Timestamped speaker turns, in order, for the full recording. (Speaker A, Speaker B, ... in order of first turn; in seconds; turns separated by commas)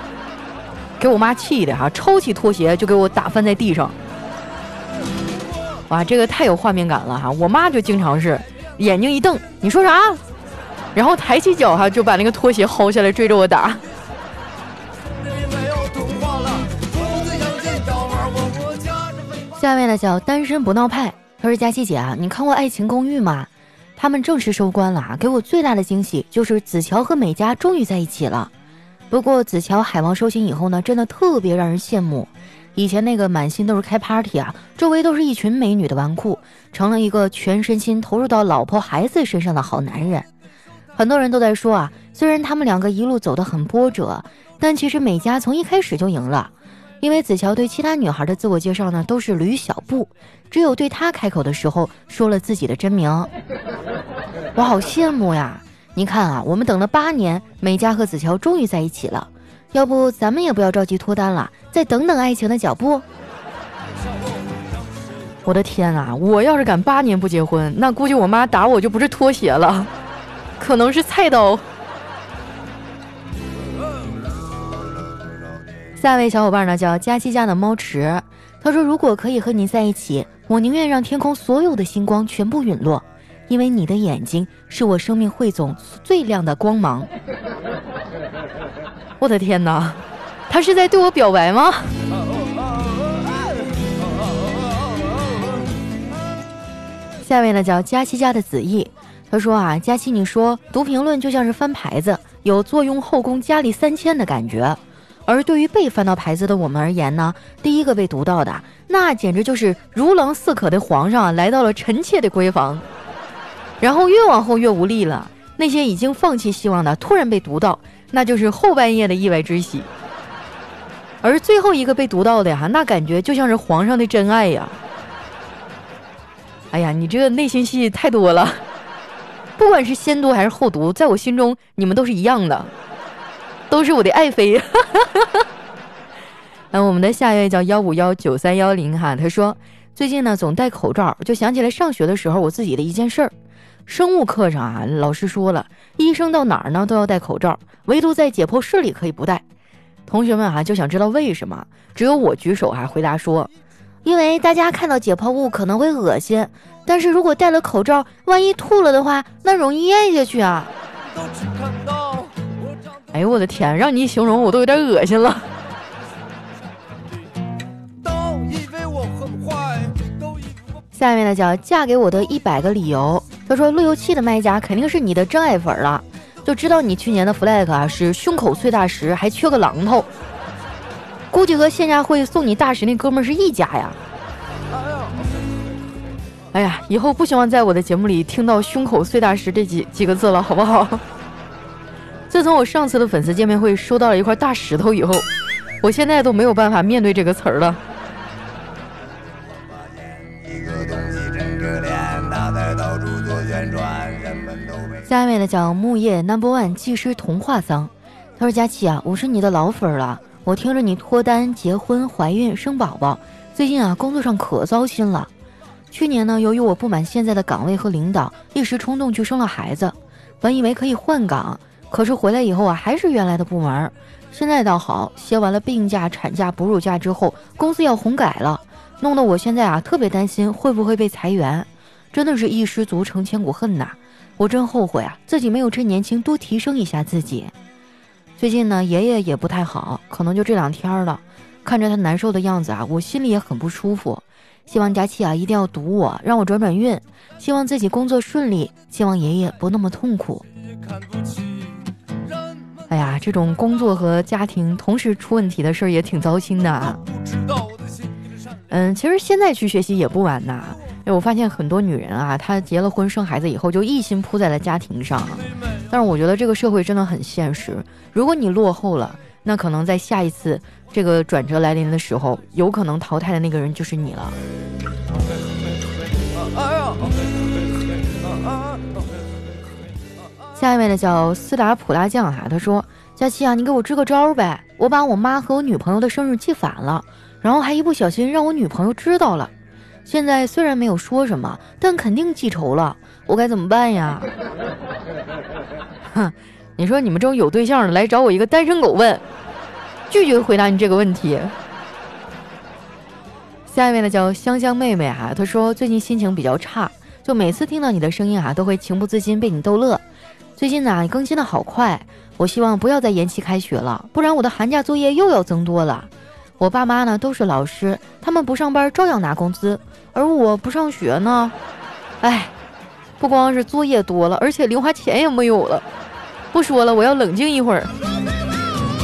Speaker A: 1.0-3.9, Speaker A: 5.9-10.2, Speaker A: 10.9-13.8, Speaker A: 19.6-28.5, Speaker A: 29.1-40.2, Speaker A: 41.0-53.3, Speaker A: 54.5-63.0, Speaker A: 65.4-69.9, Speaker A: 70.6-71.6, Speaker A: 76.0-87.1, Speaker A: 89.2-91.9, Speaker A: 97.2-112.8, Speaker A: 113.8-119.9, Speaker A: 121.2-124.8, Speaker A: 126.7-128.6, Speaker A: 129.6-132.7, Speaker A: 133.7-135.4, Speaker A: 136.7-143.3, Speaker A: 143.9-149.4, Speaker A: 150.1-153.5, Speaker A: 154.0-160.7, Speaker A: 163.1-165.5, Speaker A: 170.9-180.1, Speaker A: 181.3-184.0, Speaker A: 186.5-191.0, Speaker A: 192.3-195.3, Speaker A: 195.8-197.8, Speaker A: 205.0-215.3, Speaker A: 215.9-237.5, Speaker A: 238.4-250.4, Speaker A: 252.9-257.0, Speaker A: 258.7-274.3, Speaker A: 280.5-289.5, Speaker A: 290.1-294.3, Speaker A: 296.1-299.2, Speaker A: 300.1-301.6, Speaker A: 303.7-310.0, Speaker A: 310.6-321.5, Speaker A: 322.2-322.5, Speaker A: 323.2-325.8, Speaker A: 326.5-327.9